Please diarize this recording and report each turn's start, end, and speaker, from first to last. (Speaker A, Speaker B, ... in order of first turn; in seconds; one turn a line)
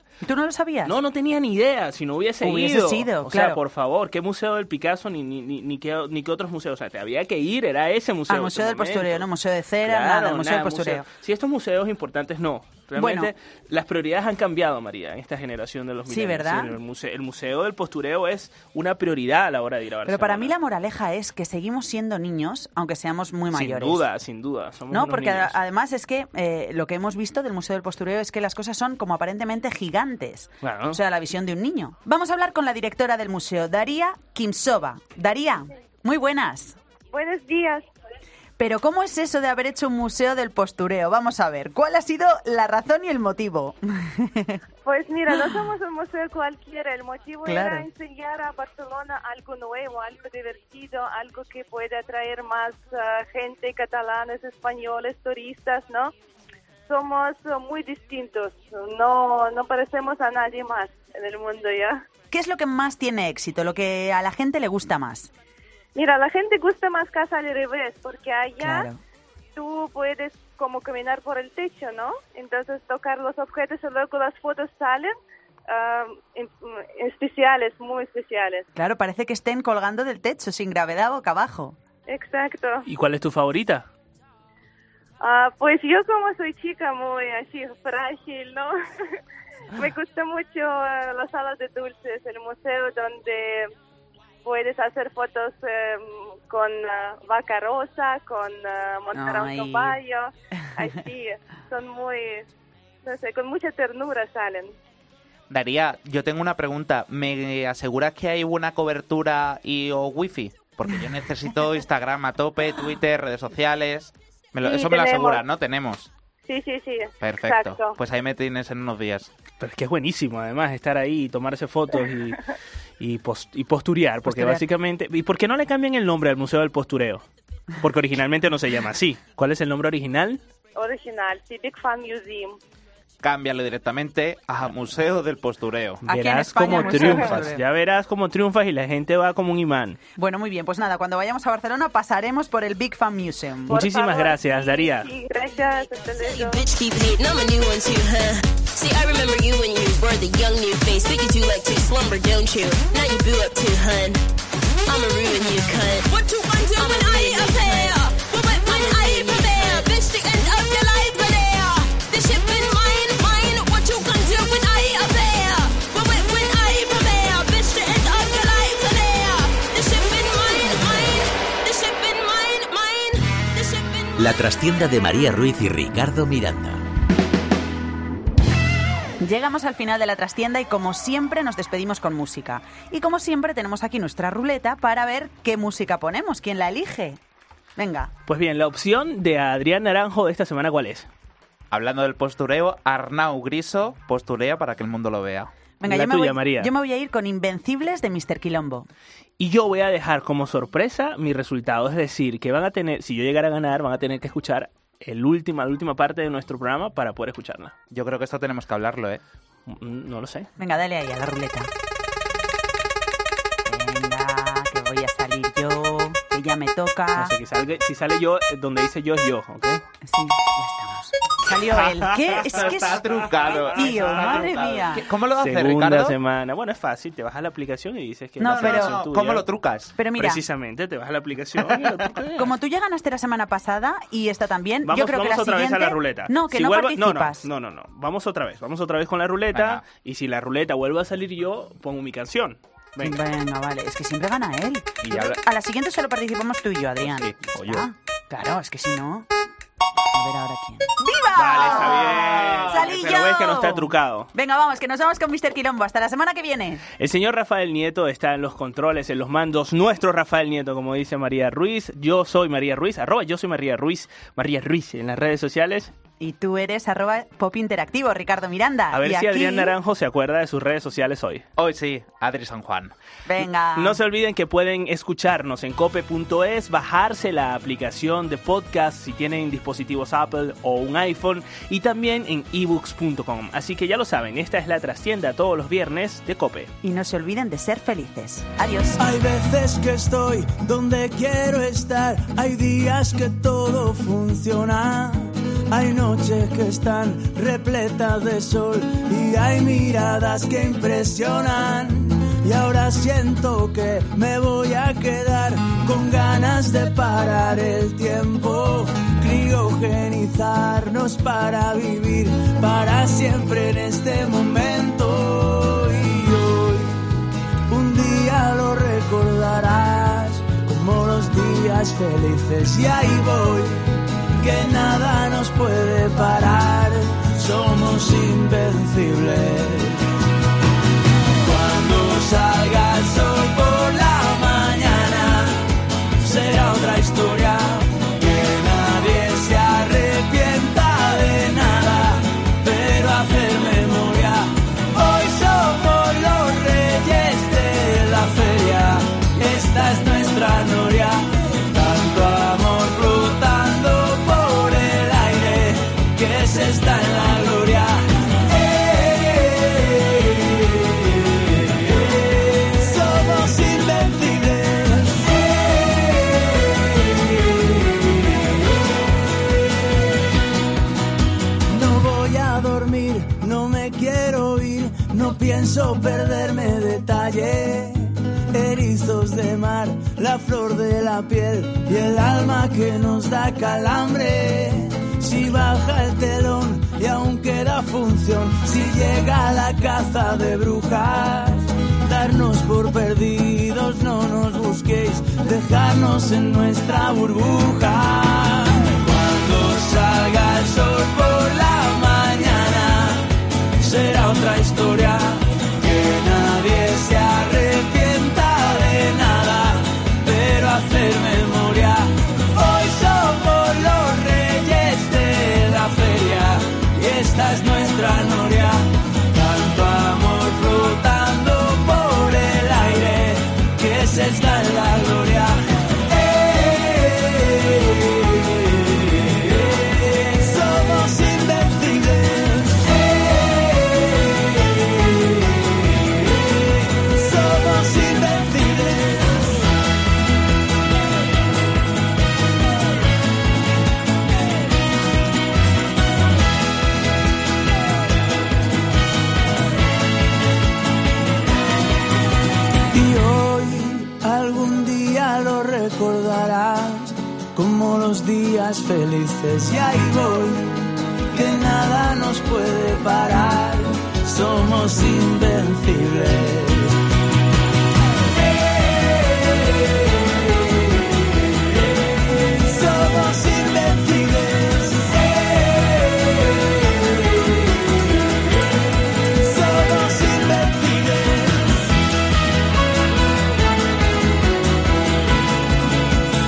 Speaker A: 0.2-0.9
Speaker B: 0.8-9.3
Speaker A: 2.4-3.6
Speaker A: 8.3-11.1
Speaker B: 9.8-20.5
Speaker A: 13.0-13.3
Speaker A: 16.1-16.7
Speaker A: 20.1-24.0
Speaker B: 23.5-25.6
Speaker A: 24.9-36.8
Speaker B: 30.6-31.0
Speaker C: 37.1-37.9
Speaker A: 38.6-44.6
Speaker C: 44.8-56.1
Speaker A: 47.4-47.9
Speaker C: 56.9-62.0
Speaker A: 62.3-65.3
Speaker C: 65.9-68.9
Speaker A: 68.6-69.0
Speaker C: 69.5-75.1
Speaker C: 75.7-78.7
Speaker A: 78.7-81.8
Speaker C: 82.1-82.8
Speaker B: 82.8-83.8
Speaker C: 85.2-89.2
Speaker C: 89.7-93.7
Speaker C: 94.4-102.5
Speaker A: 99.1-100.0
Speaker C: 103.0-104.7
Speaker D: 105.5-116.1
Speaker C: 114.6-115.4
Speaker C: 116.4-118.0
Speaker D: 117.2-119.3
Speaker B: 119.6-122.4
Speaker B: 123.0-127.2
Speaker A: 124.3-124.6
Speaker B: 127.8-130.4
Speaker C: 130.8-132.6
Speaker D: 133.2-136.0
Speaker B: 136.0-140.0
Speaker A: 136.1-137.6
Speaker A: 140.2-143.8
Speaker B: 143.7-145.1
Speaker C: 143.7-146.6
Speaker E: 146.0-154.2
Speaker E: 154.9-174.2
Speaker F: 174.2-176.8
Speaker A: 179.2-187.2
Speaker A: 187.8-188.1
Speaker B: 188.3-191.1
Speaker D: 191.7-195.5
Speaker A: 195.8-198.9
Speaker B: 195.9-196.7
Speaker B: 199.4-207.7
Speaker D: 207.9-209.2
Speaker B: 209.7-210.5
Speaker A: 210.6-211.7
Speaker A: 213.7-217.3
Speaker B: 217.2-219.8
Speaker A: 220.0-223.0
Speaker D: 222.4-226.1
Speaker A: 223.6-225.0
Speaker B: 225.4-229.4
Speaker A: 228.4-229.0
Speaker D: 228.4-229.9
Speaker A: 230.0-230.4
Speaker B: 230.1-232.5
Speaker A: 232.4-237.4
Speaker B: 234.8-243.2
Speaker D: 239.5-239.8
Speaker A: 243.0-249.3
Speaker B: 245.0-245.3
Speaker B: 247.3-247.8
Speaker A: 250.1-256.8
Speaker B: 251.3-254.3
Speaker D: 252.1-252.9
Speaker B: 257.0-265.9
Speaker A: 266.2-269.7
Speaker B: 268.9-271.4
Speaker D: 271.6-272.9
Speaker A: 273.2-274.0
Speaker B: 273.8-286.7
Speaker A: 286.8-289.0
Speaker G: 289.0-317.1
Speaker G: 317.7-330.0
Speaker G: 331.4-335.6
Speaker G: 336.2-368.7
Speaker G: 371.7-403.2
Speaker G: 403.8-439.4
Speaker G: 452.9-467.0
Speaker G: 468.5-471.5
Speaker G: 472.4-478.1
Speaker G: 479.4-481.8